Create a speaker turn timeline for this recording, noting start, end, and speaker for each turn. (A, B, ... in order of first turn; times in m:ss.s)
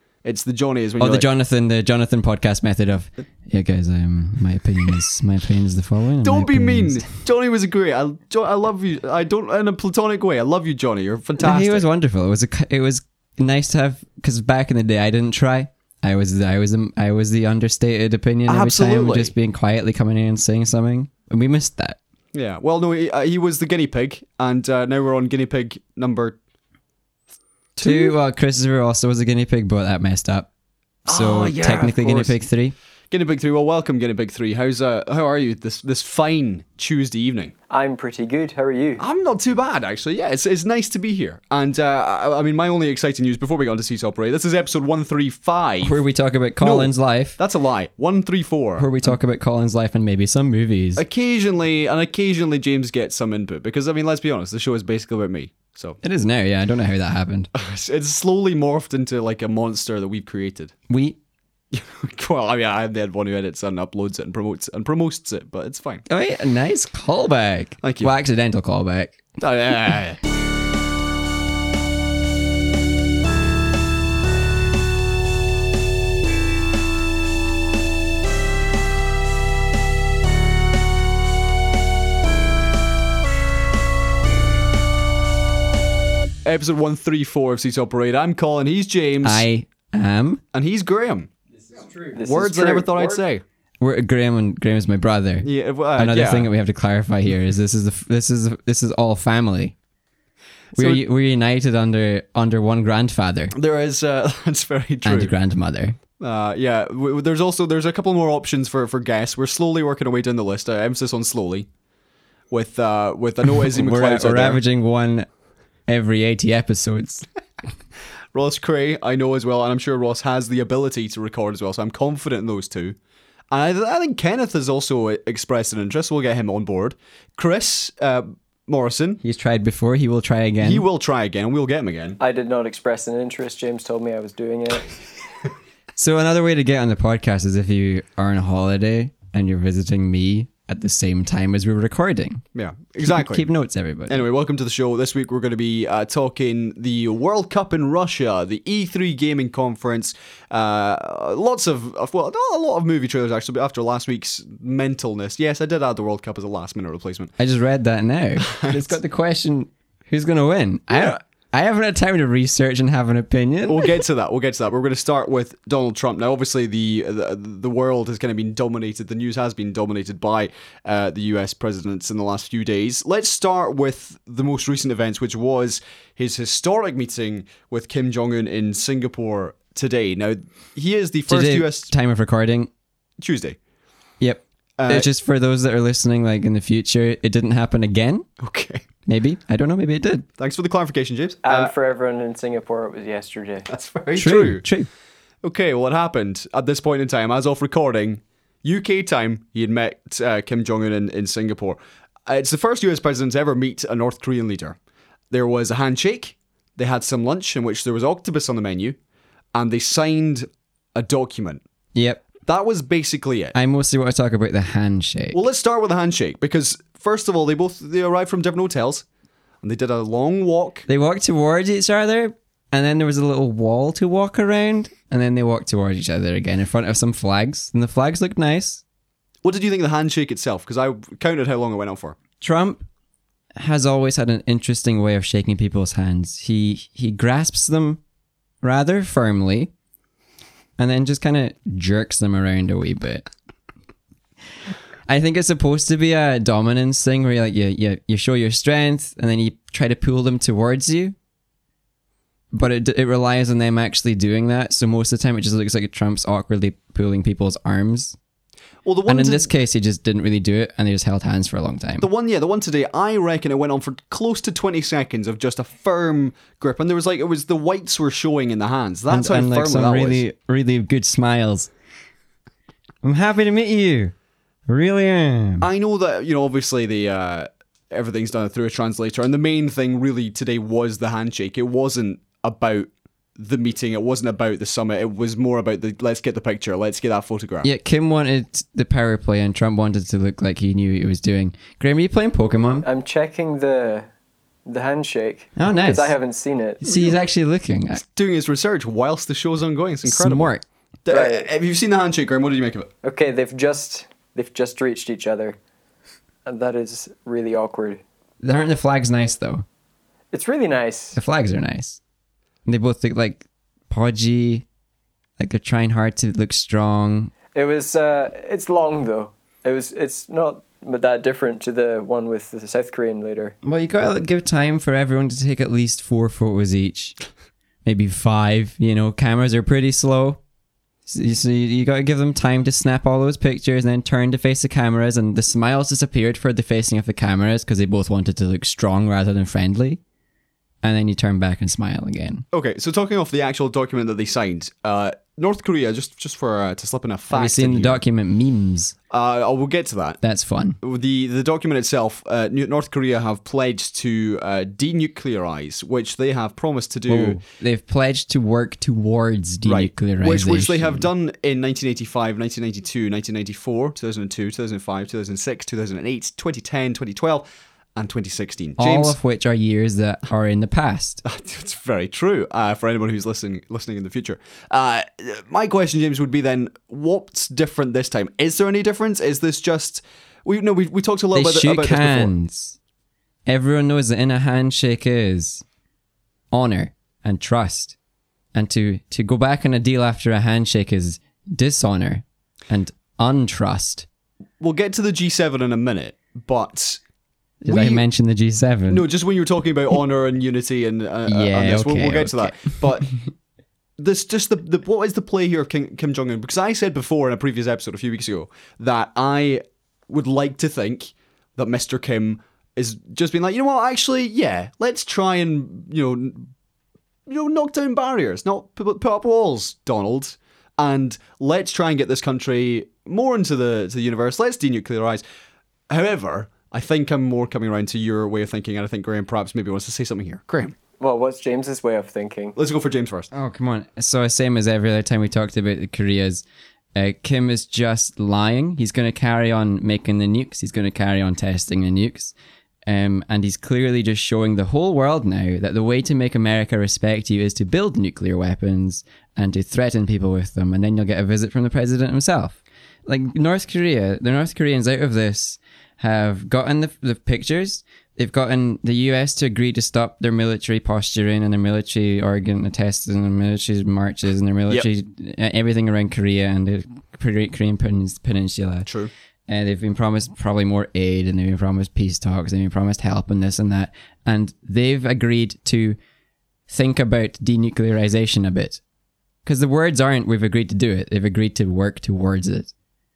0:00.2-0:01.3 A
0:01.0-0:07.1 B
0:06.2-0:11.8 A
0:11.4-0:22.0 B
0:18.5-0:19.3 A
0:22.3-0:26.4 A
0:27.7-0:28.2 A
0:27.8-0:30.5 B
0:31.1-0:32.4 A
0:31.1-0:32.7 B
0:33.1-0:37.5 A
0:37.7-0:39.0 C
0:39.0-0:46.0 A
0:45.8-0:47.4 B
0:46.6-0:49.1 A
0:48.8-0:51.0 B
0:51.0-0:56.0 A
0:56.0-0:57.5 B
0:57.5-1:00.7 A
1:00.9-1:01.2 B
1:01.7-1:06.0 A
1:06.1-1:09.2 B
1:07.8-1:08.1 A
1:09.4-1:10.2 A
1:26.4-1:29.4 A
1:29.2-1:30.4 B
1:30.5-1:31.3 A
1:31.8-1:33.2 C
1:32.2-1:33.4 A
1:33.8-1:39.7 B
1:35.4-1:36.5 A
1:40.7-1:41.0 A
1:40.7-1:43.5 B
1:43.5-1:45.3 A
1:45.0-1:46.0 B
1:46.2-1:51.7 A
1:52.5-1:54.6 A
1:53.4-1:55.3 B
1:55.9-1:57.2 B
1:58.3-2:03.0 A
2:03.5-2:09.2 A
2:09.2-2:10.8 B
2:10.6-2:12.2 A
2:12.2-2:15.0 C
2:16.0-2:22.4 B
2:22.5-2:23.5 A
2:23.0-2:24.2 B
2:24.1-2:37.3 A
2:37.4-2:44.0 B
2:38.5-2:39.0 A
2:43.7-3:01.9 A
3:01.3-3:02.7 B
3:03.2-3:03.6 A
3:04.2-3:08.3 B
3:04.8-3:05.1 A
3:08.4-3:08.8 A
3:09.0-3:10.3 B
3:10.4-3:11.7 A
3:11.4-3:13.6 C
3:13.7-3:14.6 A
3:14.2-3:14.9 B
3:15.4-3:24.8 A
3:25.3-3:29.0 A
3:29.5-3:31.6 A
3:31.9-3:32.2 B
3:32.4-3:33.6 A
3:33.5-3:35.4 B
3:35.3-3:39.0 A
3:39.6-3:40.8 A
3:40.9-3:48.8 B
3:49.4-3:52.2 A
3:52.4-3:52.8 B
3:53.6-3:58.0 B
3:58.6-3:59.7 B
4:00.8-4:03.2 B
4:05.1-4:11.1 B
4:12.5-4:18.2 B
4:18.8-4:19.5 A
4:19.1-4:22.1 B
4:22.0-4:30.2 A
4:29.1-4:31.7 B
4:33.0-4:34.1 B
4:34.7-4:35.7 B
4:35.6-4:47.7 A
4:47.6-4:52.8 B
4:52.8-4:54.1 C
4:54.6-4:56.8 C
4:55.6-4:56.1 B
4:56.8-4:58.0 B
4:56.9-4:57.1 A
4:57.9-5:00.5 A
5:00.0-5:00.6 B
5:01.0-5:02.9 A
5:01.1-5:01.5 C
5:03.0-5:05.6 C
5:06.4-5:08.0 C
5:08.4-5:09.6 B
5:10.3-5:11.2 C
5:11.2-5:12.0 B
5:12.6-5:14.6 B
5:15.4-5:17.3 B
5:17.5-5:23.5 C
5:23.6-5:27.2 B
5:27.8-5:30.4 B
5:31.1-5:40.0 B
5:40.8-5:42.4 B
5:42.5-5:48.0 A
5:47.3-5:48.9 B
5:49.1-5:50.2 A
5:50.2-5:50.8 B
5:50.8-5:57.4 A
5:57.1-6:01.1 B
5:59.6-6:09.2 A
6:08.8-6:11.2 B
6:11.2-6:22.3 A
6:21.3-6:22.8 B
6:23.5-6:25.6 B
6:26.5-6:28.0 B
6:28.5-6:34.0 B
6:34.6-6:37.0 A
6:37.6-6:39.0 B
6:37.6-6:38.0 A
6:38.9-6:43.1 A
6:41.2-6:43.1 B
6:44.0-6:56.5 A
6:57.3-7:05.2 A
7:05.9-7:10.7 A
7:11.0-7:12.6 C
7:12.6-7:13.3 A
7:13.3-7:22.3 B
7:22.8-7:48.9 B
7:48.8-7:49.1 A
7:49.5-7:56.0 B
7:56.7-7:58.8 B
7:59.4-8:02.7 B